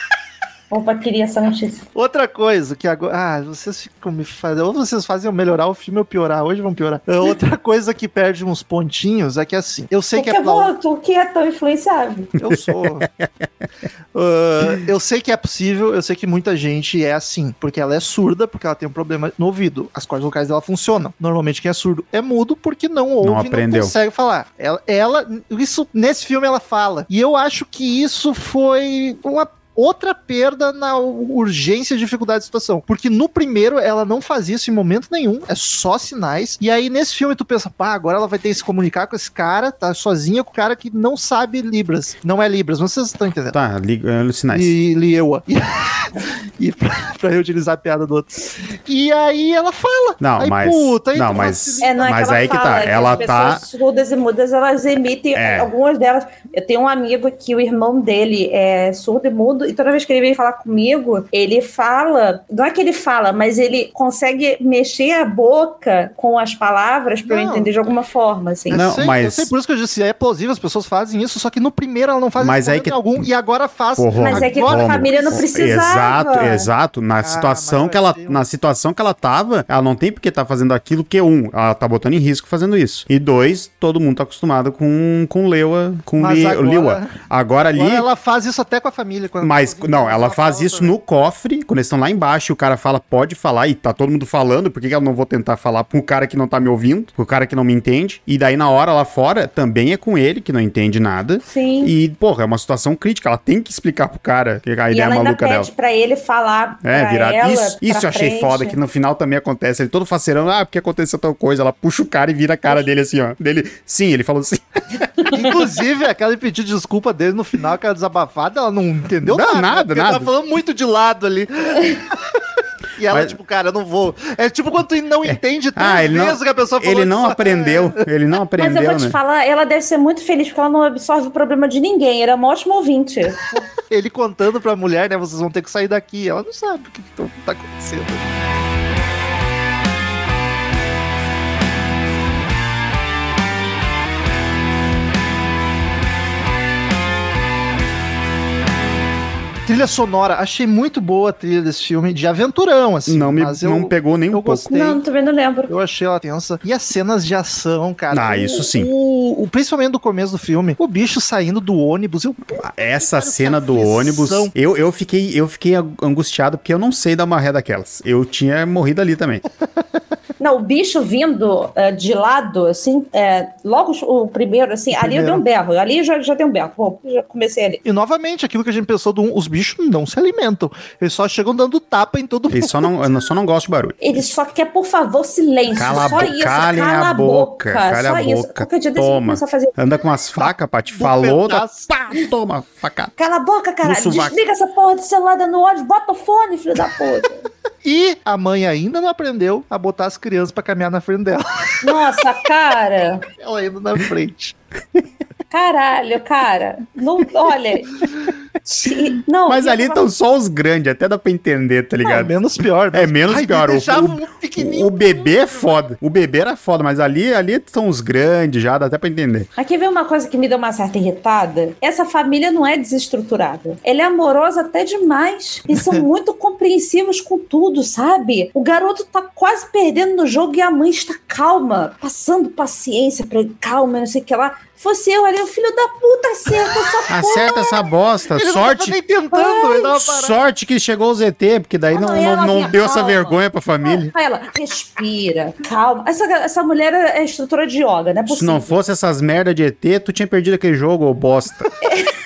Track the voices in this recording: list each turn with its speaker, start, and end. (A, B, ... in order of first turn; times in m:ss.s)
0:00.7-0:01.8 A
0:02.0-0:10.7 B
0:10.2-0:12.3 A
0:12.4-0:13.1 B
0:12.5-0:13.5 C
0:14.1-0:43.6 B
0:23.2-0:24.0 C
0:43.5-0:44.7 C
0:44.5-0:53.4 B
0:50.2-0:53.6 C
0:51.8-1:08.8 A
0:55.4-0:55.7 C
1:07.3-1:07.7 B
1:08.7-1:15.4 B
1:08.7-1:09.5 C
1:12.4-1:13.2 C
1:14.0-1:28.1 C
1:14.2-1:16.7 A
1:17.2-1:18.4 B
1:26.2-1:27.2 B
1:27.7-1:30.9 B
1:29.4-1:45.7 C
1:41.4-1:41.9 A
1:44.9-1:48.8 A
1:46.8-1:55.1 C
1:55.3-2:02.4 B
1:59.2-2:00.3 C
2:01.7-2:02.0 A
2:03.0-2:08.1 B
2:03.1-2:03.4 C
2:05.3-2:09.2 C
2:08.6-2:13.7 A
2:13.9-2:18.4 B
2:29.7-2:35.0 B
2:33.1-2:34.8 C
2:34.7-2:35.7 A
2:35.7-2:44.5 B
2:38.1-2:38.9 C
2:42.6-2:49.4 C
2:50.4-2:57.8 A
2:54.9-2:55.4 B
2:57.8-3:03.1 B
3:02.5-3:04.2 C
3:04.0-3:09.7 A
3:05.8-3:13.1 C
3:10.5-3:11.9 B
3:13.2-3:17.5 A
3:13.8-3:14.4 C
3:17.8-3:22.2 B
3:21.8-3:23.3 A
3:23.4-3:24.6 B
3:25.5-3:28.0 A
3:28.6-3:30.0 A
3:29.5-3:32.3 C
3:32.0-3:35.7 B
3:32.9-3:39.5 C
3:39.6-3:57.8 A
3:45.7-3:46.0 B
3:57.1-3:59.0 C
3:58.3-4:00.4 B
3:59.3-4:00.0 A
4:00.0-4:04.1 C
4:01.9-4:08.8 A
4:08.3-4:11.7 C
4:11.8-4:12.1 A